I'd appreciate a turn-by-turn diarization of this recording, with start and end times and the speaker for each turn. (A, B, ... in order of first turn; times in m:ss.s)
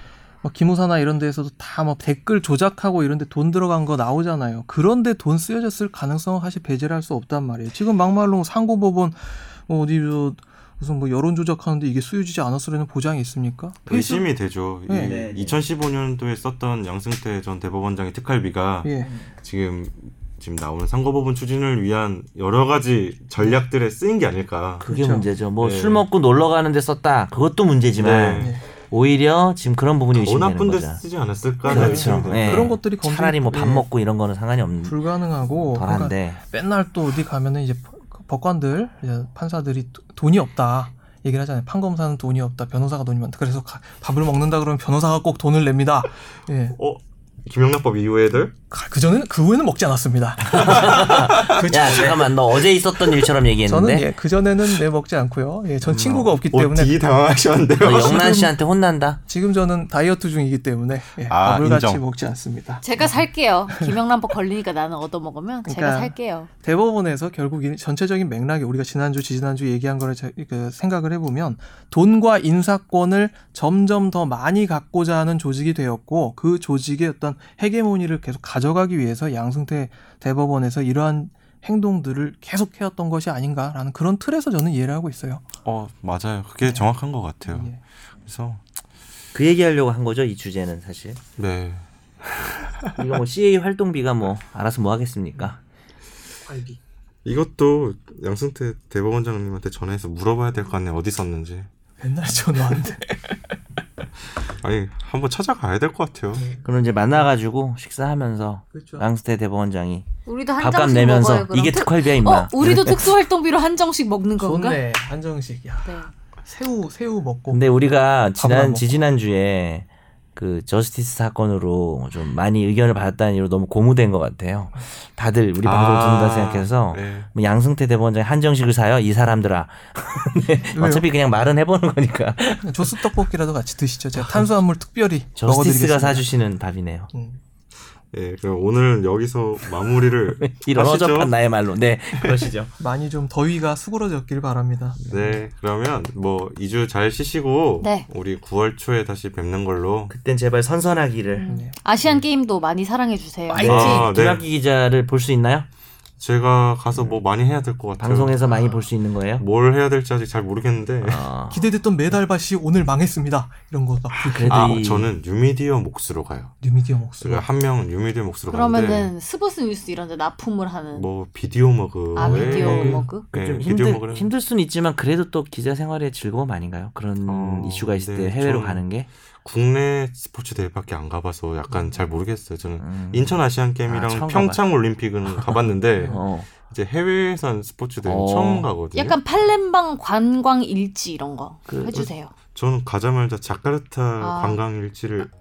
0:00.4-0:14.3 A
0:13.9-0:24.9 B
0:14.9-0:15.3 A
0:15.0-0:15.6 C
0:18.8-0:19.1 A
0:19.0-0:19.3 C
0:24.8-0:25.3 A
0:24.8-0:31.0 C
0:25.6-0:26.0 B
0:28.0-0:28.6 B
0:30.1-0:32.8 B
0:31.6-0:33.9 A
0:31.6-0:35.0 C
0:34.8-0:46.8 A
0:35.7-0:36.4 C
0:46.7-0:48.5 B
0:48.7-0:52.4 A
0:50.4-0:54.1 C
0:51.1-0:51.6 B
0:53.6-0:57.0 A
0:55.8-0:56.3 C
0:56.4-0:58.4 B
0:57.8-0:59.2 C
0:57.8-0:58.5 A
0:59.3-1:03.2 A
1:01.3-1:02.0 B
1:02.8-1:06.5 D
1:05.6-1:25.4 A
1:25.6-1:28.6 B
1:26.6-1:26.9 A
1:27.4-1:27.8 A
1:29.3-1:31.2 C
1:31.4-1:32.9 B
1:33.0-1:35.6 C
1:36.4-1:36.8 A
1:37.2-1:41.7 B
1:42.0-1:43.6 A
1:44.6-1:46.5 B
1:46.3-1:46.7 A
1:46.6-1:50.1 C
1:48.7-1:49.1 A
1:50.2-1:54.8 D
1:50.6-1:53.1 C
1:54.4-1:57.6 A
1:55.8-1:56.1 D
1:57.5-2:13.1 C
1:58.4-1:58.9 A
2:05.6-2:07.3 B
2:10.7-2:11.1 A
2:12.6-2:16.2 A
2:14.1-2:14.5 C
2:15.4-2:17.1 C
2:17.1-2:17.4 A
2:18.1-2:21.3 B
2:20.3-2:22.7 C
2:22.8-2:25.0 A
2:25.1-2:25.4 C
2:25.1-2:30.1 B
2:27.8-2:28.1 D
2:30.1-2:31.5 C
2:31.3-2:34.1 D
2:31.5-2:31.7 A
2:33.5-2:34.1 A
2:33.5-2:35.7 C
2:33.6-2:34.4 B
2:36.2-2:38.6 B
2:38.0-2:39.4 C
2:39.4-2:41.3 B
2:41.0-2:41.7 C
2:41.5-2:44.8 A
2:44.1-2:45.1 C
2:44.4-2:46.6 B
2:46.6-2:47.5 A
2:47.2-2:49.1 B
2:48.5-2:51.1 D
2:50.9-2:54.3 B
2:52.1-2:53.2 D
2:52.2-2:53.1 A
2:52.5-2:59.1 C
2:57.2-2:58.9 B
2:59.4-3:09.2 B
3:02.8-3:04.6 C
3:05.3-3:06.5 C
3:08.0-3:08.7 C
3:08.9-3:12.3 D
3:11.7-3:12.0 C
3:11.9-3:15.3 B
3:14.2-3:14.6 D